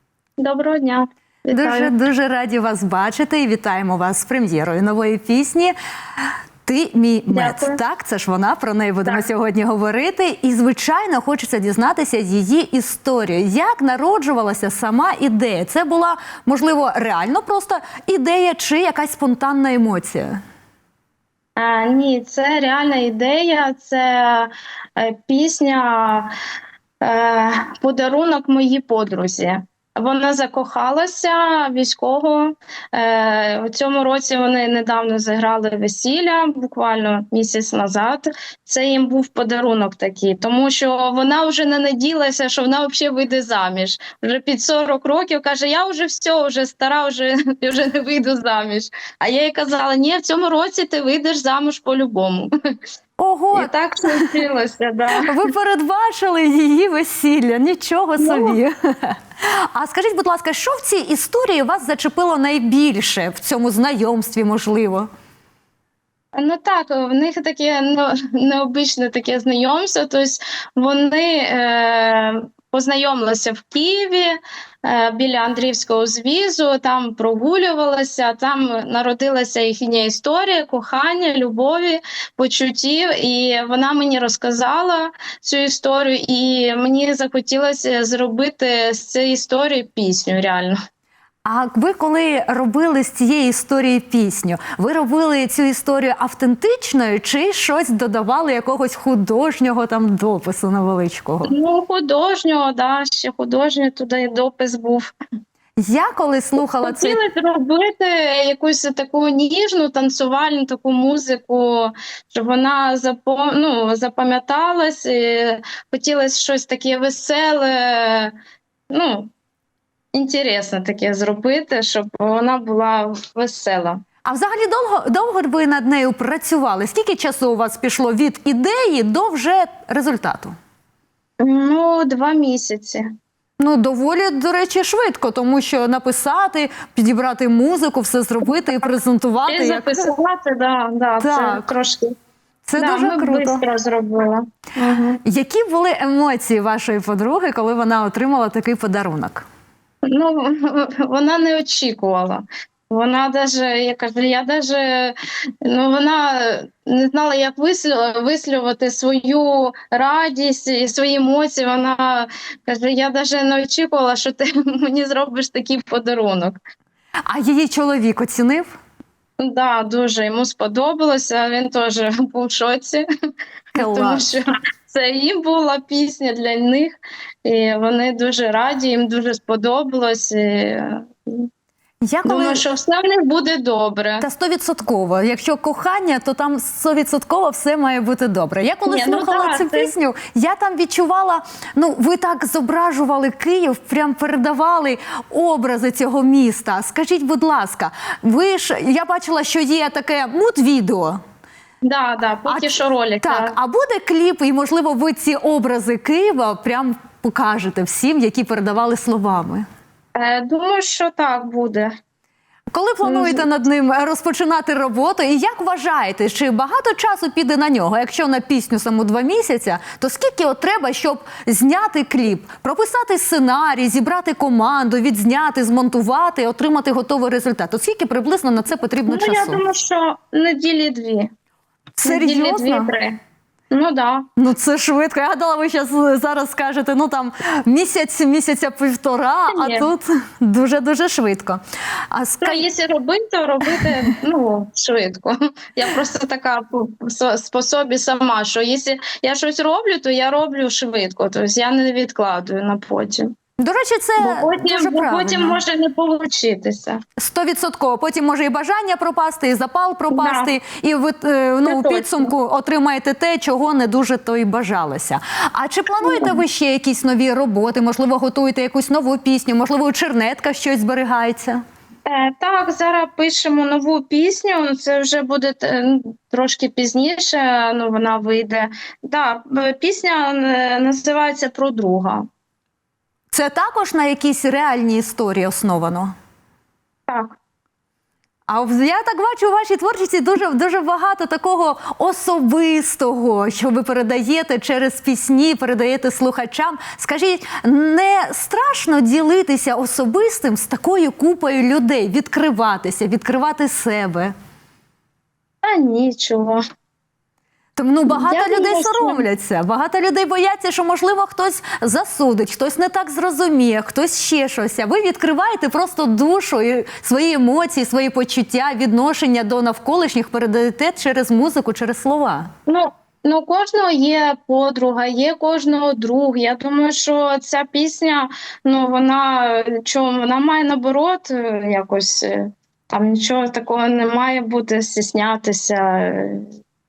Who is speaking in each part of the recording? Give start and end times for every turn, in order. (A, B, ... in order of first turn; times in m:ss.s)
0:00.4-0:01.9 A
0:01.5-0:05.7 B
0:06.6-0:20.4 B
0:07.3-0:07.8 A
0:21.6-0:26.3 A
0:27.0-0:52.5 A
0:53.2-0:53.7 B
0:53.5-0:55.3 A
0:55.2-1:05.1 B
0:58.2-0:58.6 A
1:06.4-1:30.8 A
1:31.4-1:41.5 B
1:41.4-1:45.1 A
1:45.8-1:47.2 B
1:46.8-1:58.3 A
1:58.9-1:59.3 A
2:00.1-2:04.0 A
2:04.2-2:10.5 B
2:11.4-2:13.0 A
2:13.6-2:20.1 B
2:19.5-2:22.1 A
2:21.2-2:21.7 B
2:22.6-2:23.6 B
2:22.8-2:25.2 A
2:25.2-2:29.4 B
2:30.1-2:46.6 A
2:47.3-2:48.7 B
2:49.4-2:53.0 A
2:53.7-3:01.5 A
2:53.8-2:54.3 B
3:02.0-3:02.6 B
3:02.2-3:04.2 A
3:04.2-3:21.2 B
3:08.8-3:09.9 A
3:21.8-3:23.6 A
3:22.5-3:29.6 B
3:30.2-3:31.9 A
3:32.7-3:49.6 B
3:33.0-3:33.4 A
3:49.1-3:51.3 A
3:52.0-3:52.9 B
3:52.0-3:53.2 A
3:53.7-3:54.3 A
3:54.4-4:01.6 B
3:59.5-3:59.9 A
4:02.1-4:02.6 B
4:02.4-4:13.3 A
4:13.6-4:15.6 B
4:14.2-4:17.0 A
4:17.2-4:31.6 B
4:20.1-4:20.5 A
4:21.6-4:22.3 A
4:26.0-4:26.4 A
4:32.0-4:42.2 A
4:43.3-4:46.1 B
4:48.5-5:04.3 B
5:05.6-5:06.6 A
5:07.8-5:22.5 B
5:08.1-5:09.2 A
5:22.7-5:36.5 A